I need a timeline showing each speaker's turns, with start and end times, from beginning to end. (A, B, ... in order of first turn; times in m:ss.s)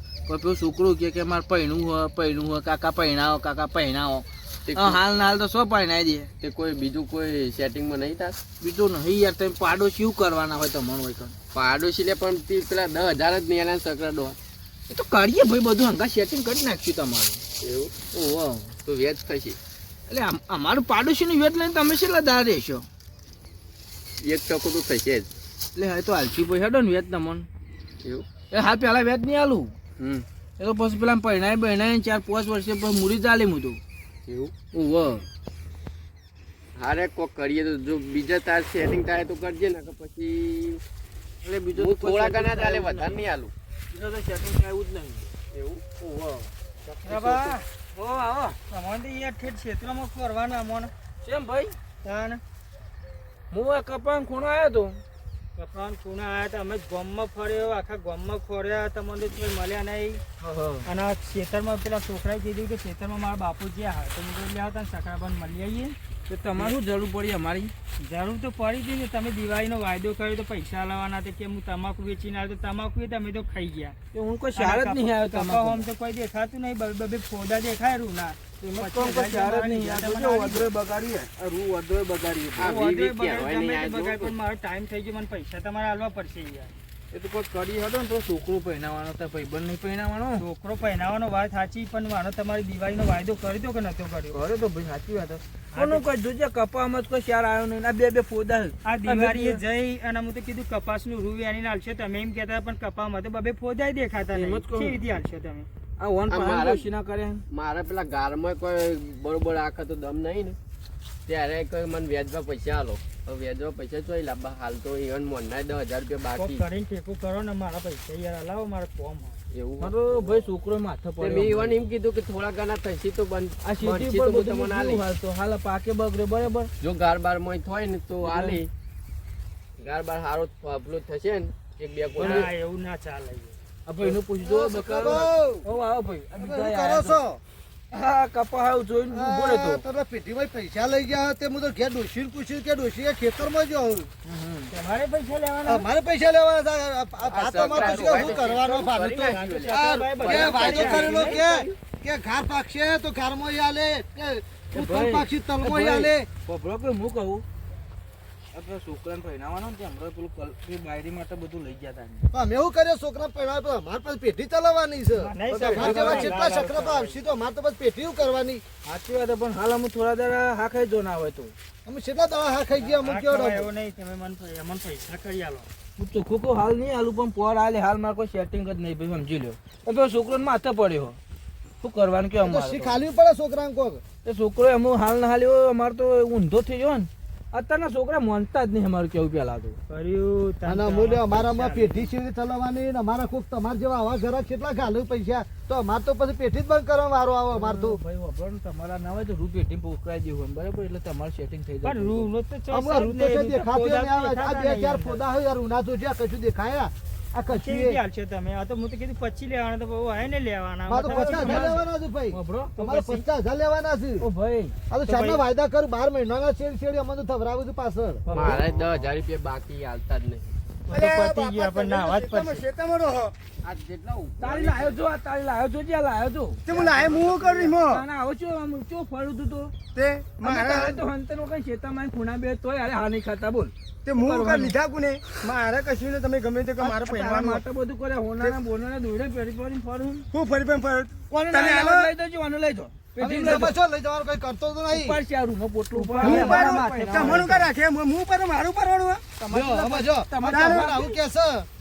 0:00.3-0:06.3 A
0:04.7-0:05.0 B
0:06.4-0:08.4 B
0:08.6-0:11.4 A
0:11.5-0:14.4 B
0:14.9-0:17.4 A
0:17.6-0:17.9 B
0:18.1-0:18.7 A
0:18.9-0:19.6 B
0:20.1-0:22.9 A
0:24.2-0:25.3 B
0:25.8-0:27.5 A
0:28.0-0:28.3 B
0:28.5-0:29.7 A
0:30.0-0:30.2 B
0:30.6-0:33.8 A
0:34.3-0:34.6 B
0:34.7-0:35.2 A
0:36.8-0:40.8 B
0:41.4-0:43.2 A
0:41.8-0:43.5 B
0:43.9-0:45.3 A
0:45.5-0:45.8 B
0:46.0-0:46.5 A
0:47.0-0:48.6 A
0:47.0-0:47.7 C
0:48.7-0:50.9 C
0:51.2-0:51.8 A
0:52.0-0:52.4 C
0:53.5-0:55.0 A
0:55.6-1:00.2 C
1:00.4-1:00.9 A
1:00.8-1:06.0 C
1:06.3-1:07.7 A
1:08.0-1:14.0 C
1:14.1-1:15.9 A
1:14.6-1:20.7 C
1:18.6-1:22.8 A
1:22.6-1:24.3 B
1:22.6-1:26.7 C
1:27.1-1:30.4 A
1:30.4-1:34.4 C
1:34.3-1:39.6 A
1:35.7-1:36.0 C
1:38.8-1:45.7 C
1:44.3-1:45.0 A
1:46.0-1:47.4 A
1:46.3-1:46.9 B
1:47.5-1:50.6 B
1:51.3-1:56.6 B
1:56.4-1:59.4 C
1:59.5-2:00.4 B
1:59.8-2:01.8 A
2:01.2-2:05.0 B
2:03.6-2:06.7 A
2:06.8-2:08.7 B
2:08.2-2:08.6 A
2:09.8-2:12.5 B
2:12.2-2:12.5 A
2:12.2-2:13.6 C
2:13.9-2:17.2 A
2:14.1-2:15.7 D
2:16.4-2:17.4 D
2:17.9-2:19.8 A
2:19.1-2:24.1 D
2:24.2-2:24.7 A
2:24.7-2:25.9 C
2:25.6-2:36.3 D
2:27.2-2:31.7 B
2:27.6-2:28.4 A
2:29.2-2:31.4 C
2:34.7-2:37.4 A
2:38.5-2:42.3 A
2:42.3-2:48.6 D
2:45.2-2:47.2 C
2:45.7-2:46.3 A
2:48.8-2:51.5 A
2:51.9-2:53.7 D
2:52.8-2:55.7 C
2:56.0-3:01.2 A
3:01.8-3:03.0 A
3:02.4-3:04.0 D
3:04.2-3:09.8 A
3:09.9-3:12.0 C
3:10.6-3:18.0 D
3:17.5-3:22.3 A
3:21.8-3:25.2 C
3:22.7-3:28.0 D
3:27.5-3:31.8 C
3:30.9-3:34.3 D
3:31.0-3:31.8 A
3:32.3-3:32.8 A
3:32.8-3:33.2 C
3:34.2-3:34.8 A
3:34.9-3:38.2 D
3:35.0-3:35.4 C
3:38.3-3:38.7 A
3:38.3-3:40.5 B
3:40.9-3:42.6 C
3:40.9-3:43.3 E
3:43.6-3:45.0 B
3:44.4-3:46.6 A
3:46.7-3:48.0 E
3:46.7-3:47.6 B
3:47.7-3:49.7 A
3:50.0-3:51.0 E
3:50.4-3:54.7 A
3:54.0-3:57.6 E
3:56.8-4:00.3 A
4:00.3-4:02.1 E
4:01.3-4:03.7 A
4:03.2-4:05.2 D
4:04.9-4:07.7 A
4:05.9-4:07.5 D
4:06.2-4:09.2 E
4:09.4-4:11.2 A
4:09.5-4:11.7 D
4:10.5-4:10.9 E